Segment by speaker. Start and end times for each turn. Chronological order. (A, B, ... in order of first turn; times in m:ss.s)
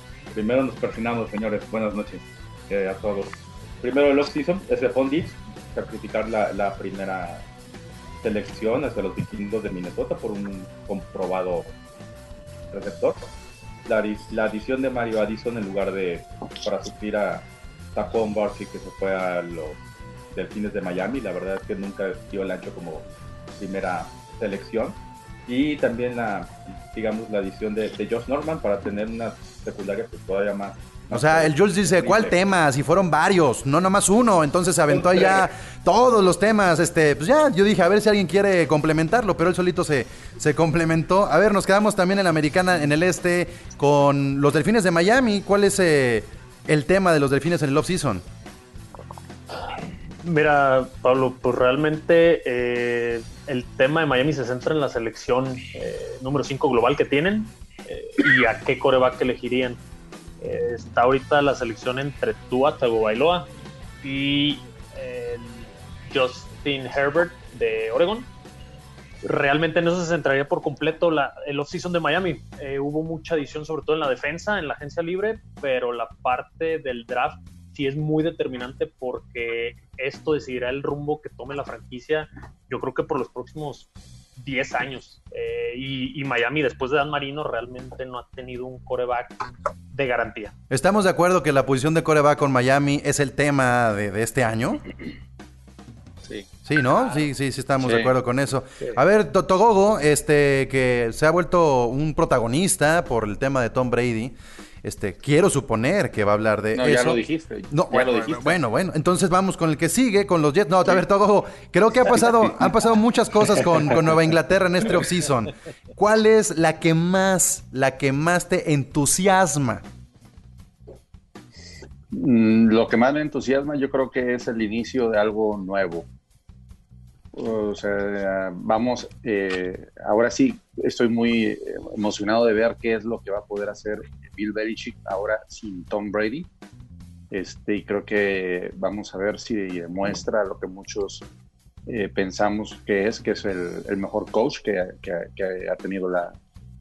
0:00.3-0:07.5 A
0:08.2-0:11.7 A
0:12.7-0:13.3 A
0:13.9-0:19.8 A
0:20.3-0:23.0 A
0:23.6-0:32.4 A
0:31.1-0:48.2 B
0:34.9-0:35.4 A
0:50.2-0:59.8 C
1:00.4-1:03.5 C
1:04.0-1:08.3 C
1:09.2-1:23.9 C
1:24.4-1:29.4 C
1:29.9-1:30.5 C
1:30.7-1:34.8 B
1:36.6-1:59.8 B
1:37.8-1:38.1 D
1:46.7-1:48.6 D
2:02.1-2:06.1 D
2:07.3-2:16.5 D
2:17.3-2:21.2 D
2:21.9-2:26.4 D